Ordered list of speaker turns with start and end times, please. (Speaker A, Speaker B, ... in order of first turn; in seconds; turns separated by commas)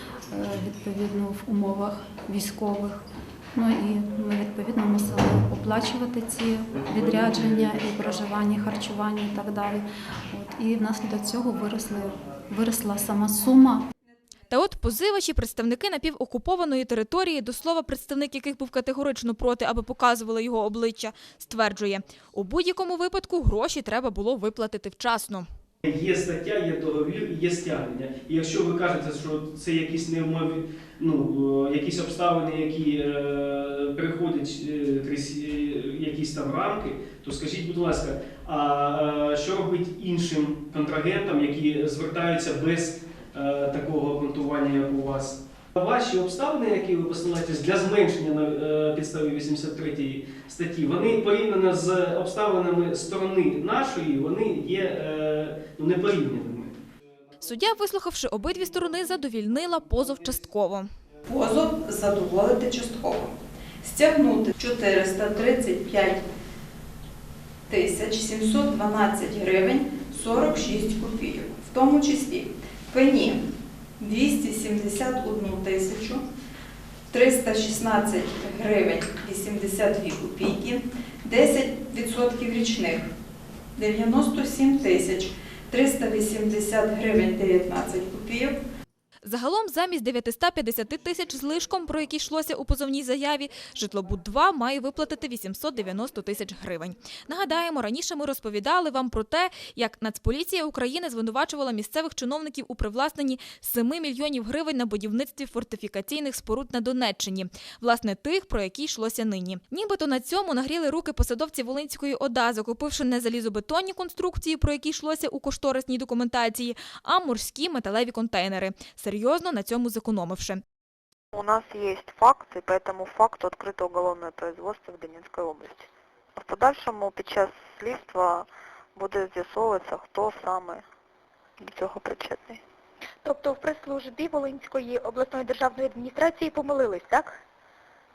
Speaker A: 0.3-13.9, Speaker B: 14.5-25.5, Speaker C: 25.8-56.7, Speaker B: 57.4-60.9, Speaker D: 61.3-63.3, Speaker D: 63.8-66.2, Speaker D: 67.7-73.4, Speaker D: 74.0-76.2, Speaker D: 77.1-83.1, Speaker D: 83.8-88.6, Speaker B: 89.2-120.6, Speaker E: 121.3-130.8, Speaker E: 131.6-132.6, Speaker F: 133.2-137.2